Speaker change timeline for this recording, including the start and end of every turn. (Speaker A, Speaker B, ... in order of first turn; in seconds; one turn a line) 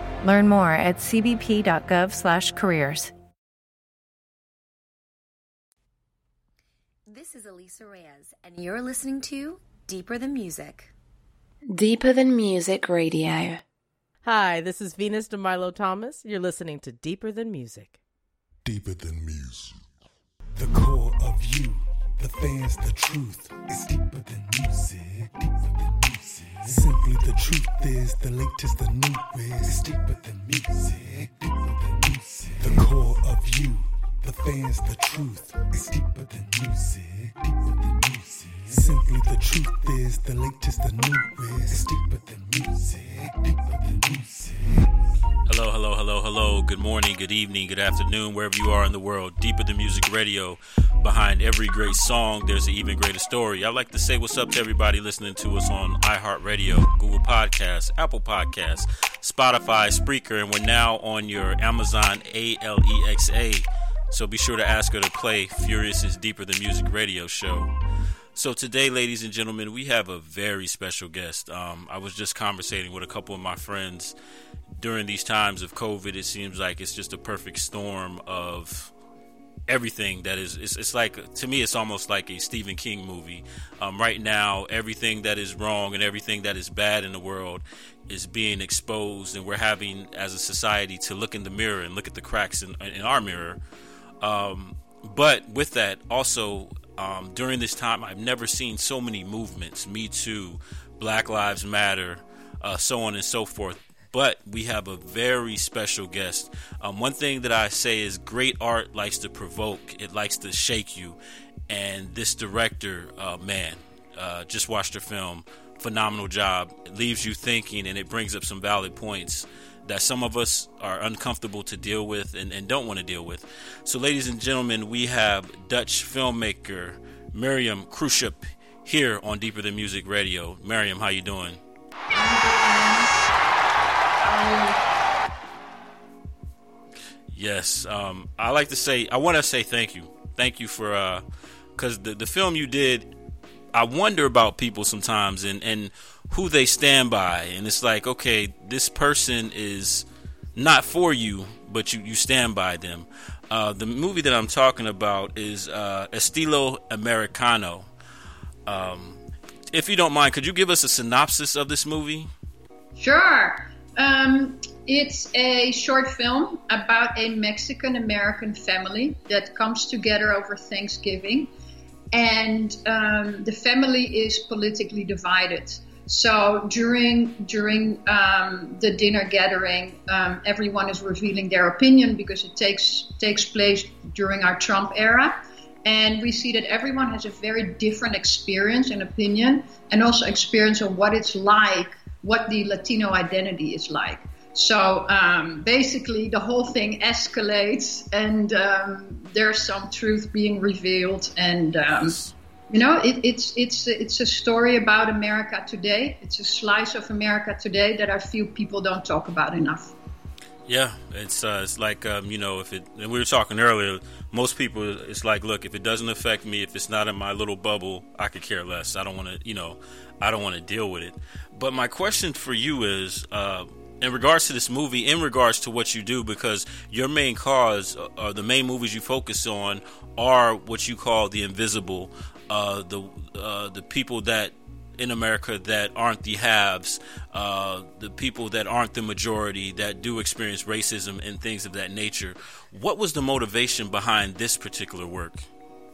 Speaker A: 0.2-3.1
Speaker B: 7.1-10.9
Speaker C: 11.7-13.6
Speaker D: 14.2-18.0
Speaker E: 18.6-19.7
Speaker E: 20.5-44.9
Speaker F: 45.5-67.7
Speaker F: 68.3-74.2
Speaker F: 74.8-78.9
Speaker F: 79.7-93.6
Speaker F: 94.2-111.2
Speaker F: 111.7-131.6
Speaker G: 132.1-133.1
Speaker G: 134.2-134.8
Speaker F: 137.3-141.2
Speaker F: 141.8-143.1
Speaker F: 143.7-157.9
Speaker F: 158.7-159.2
Speaker F: 159.7-162.3
Speaker G: 163.0-171.5
Speaker G: 172.1-202.2
Speaker F: 201.9-202.3
Speaker G: 202.7-209.9
Speaker F: 210.7-245.4